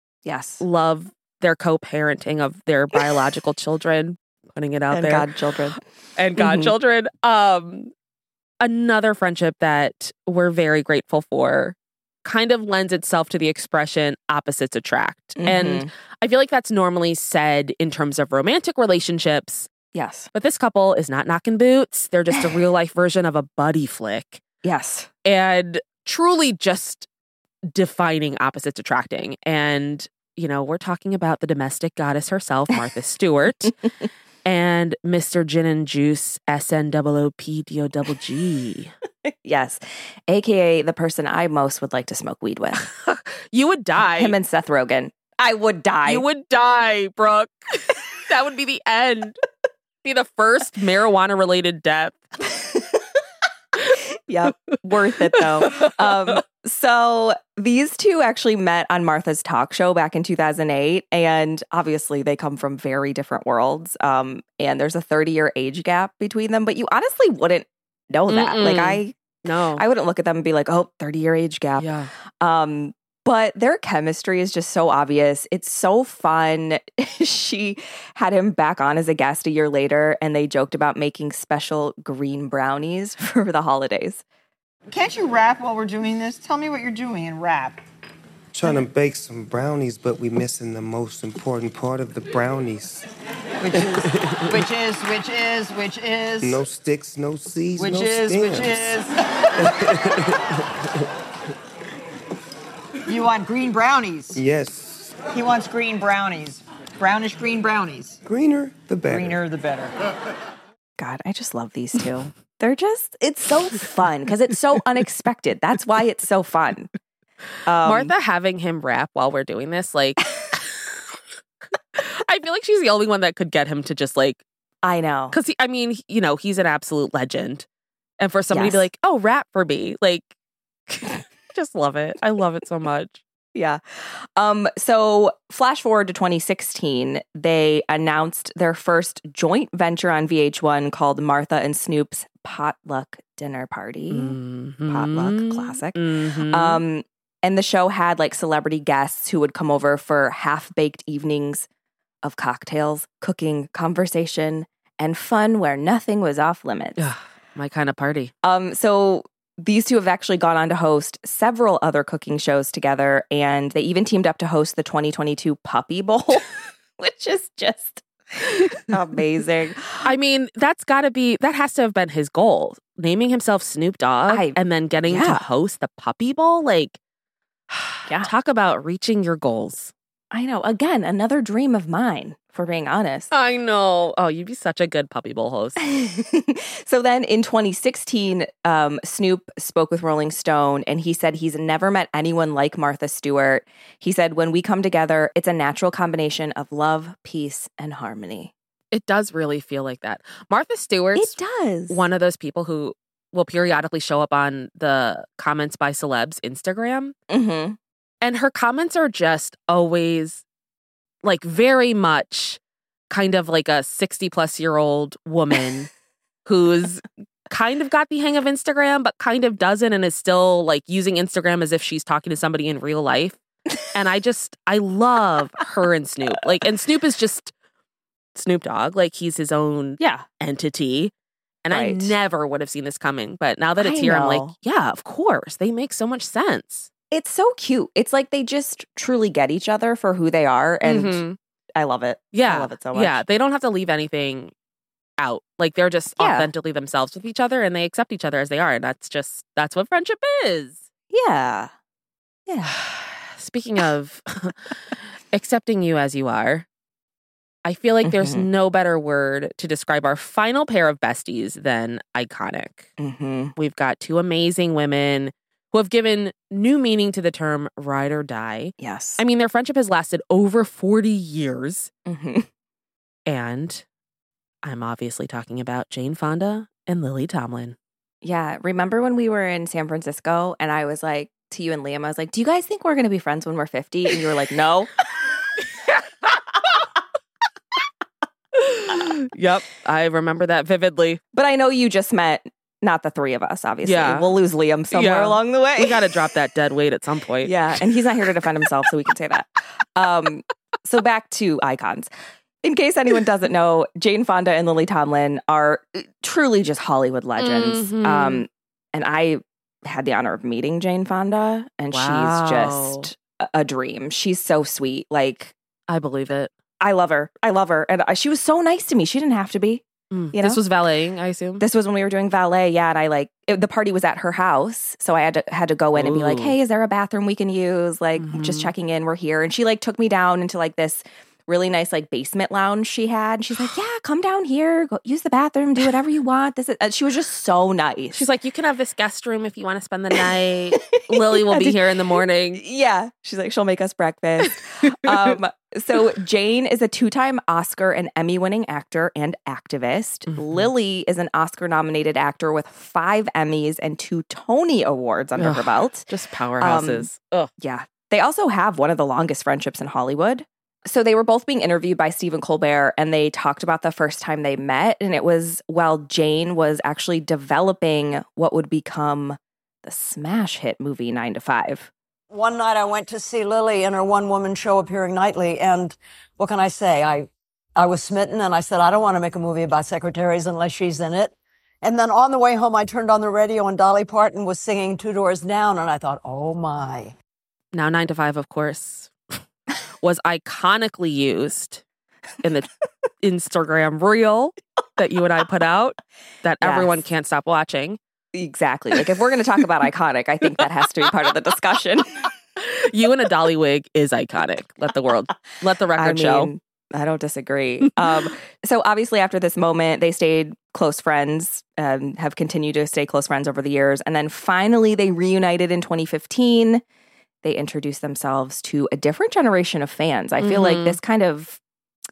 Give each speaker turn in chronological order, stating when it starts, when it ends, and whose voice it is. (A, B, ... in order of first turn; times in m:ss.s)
0:00.2-0:00.6 A
0:00.6-0:05.3 B
0:04.9-0:05.8 A
0:06.2-0:07.9 B
0:06.4-0:06.7 A
0:08.6-0:19.7 B
0:15.4-0:15.9 A
0:19.9-0:20.3 A
0:20.3-0:24.4 B
0:24.6-0:25.1 A
0:25.2-0:27.1 B
0:27.7-0:33.8 B
0:34.4-0:38.9 B
0:39.2-0:42.8 A
0:42.8-0:44.4 B
0:44.0-0:46.2 A
0:46.0-0:49.4 B
0:50.0-0:52.2 B
0:54.3-1:24.2 A
1:08.3-1:09.8 B
1:11.8-1:12.1 B
1:24.9-1:27.8 C
1:28.5-1:33.1 D
1:33.6-1:36.6 C
1:33.7-1:34.6 D
1:36.4-1:39.0 D
1:37.8-1:39.7 C
1:39.6-1:40.7 D
1:43.1-1:44.4 C
1:44.3-1:45.2 D
1:45.3-1:48.2 C
1:48.2-1:49.4 D
1:49.1-1:49.9 C
1:51.0-1:56.9 A
1:57.6-1:58.1 A
1:57.8-2:01.2 B
2:01.9-2:04.4 B
2:04.8-2:05.4 A
2:05.3-2:07.6 B
2:08.2-2:10.3 B
2:08.5-2:08.9 A
2:10.9-2:13.2 B
2:13.5-2:31.6 A
2:24.1-2:26.8 B
2:32.2-2:37.1 A
2:37.0-2:38.3 B
2:38.4-2:50.1 A
2:50.0-2:57.0 B
2:54.3-2:55.5 A
2:57.7-2:59.9 B
3:00.3-3:03.3 A
3:03.3-3:05.9 B
3:05.8-3:18.5 A
3:18.9-3:21.4 B
3:21.2-3:22.1 A
3:21.9-3:27.1 B
3:27.3-3:27.8 A
3:28.2-3:30.4 B
3:31.2-3:35.9 B
3:36.4-3:43.4 B
3:43.9-3:47.5 B
3:48.3-3:51.1 B
3:51.6-3:56.9 B
3:51.7-3:52.2 A
3:53.8-3:54.5 A
3:57.1-4:01.2 A
4:00.8-4:01.4 B
4:01.7-4:03.2 A
4:02.3-4:04.5 B
4:05.2-4:10.8 B
4:06.2-4:06.5 A
4:11.1-4:11.7 A
4:12.5-4:12.8 A
4:12.6-4:16.6 B
4:17.6-4:22.9 B
4:18.0-4:18.5 A
4:23.0-4:23.5 A
4:23.6-4:31.9 B
4:28.8-4:29.2 A
4:32.0-4:32.4 A
4:33.3-4:33.8 B
4:34.6-4:37.8 B
4:38.2-4:45.0 A
4:45.8-4:46.7 B
4:48.5-4:51.2 B
4:51.3-4:56.1 A
4:53.8-4:54.3 B
4:54.9-4:57.6 B
4:57.4-5:02.1 A
5:02.6-5:15.5 A
5:07.4-5:08.4 B
5:11.9-5:13.1 B
5:15.9-5:16.5 B
5:16.8-5:20.6 A
5:20.1-5:21.6 B
5:21.6-5:38.2 A
5:25.9-5:26.6 B
5:28.2-5:28.7 B
5:38.1-5:42.6 B
5:40.7-5:56.0 A
5:50.3-5:50.7 B
5:55.4-5:57.5 B
5:56.6-6:11.9 A
6:12.3-6:21.3 E
6:21.8-6:27.1 E
6:27.7-6:29.4 B
6:30.0-6:31.8 B
6:32.4-6:32.7 B
6:33.2-6:38.0 B
6:36.6-6:37.0 A
6:38.3-6:42.3 A
6:42.6-6:46.5 B
6:45.9-6:56.8 A
6:57.4-7:01.6 A
7:00.4-7:01.0 B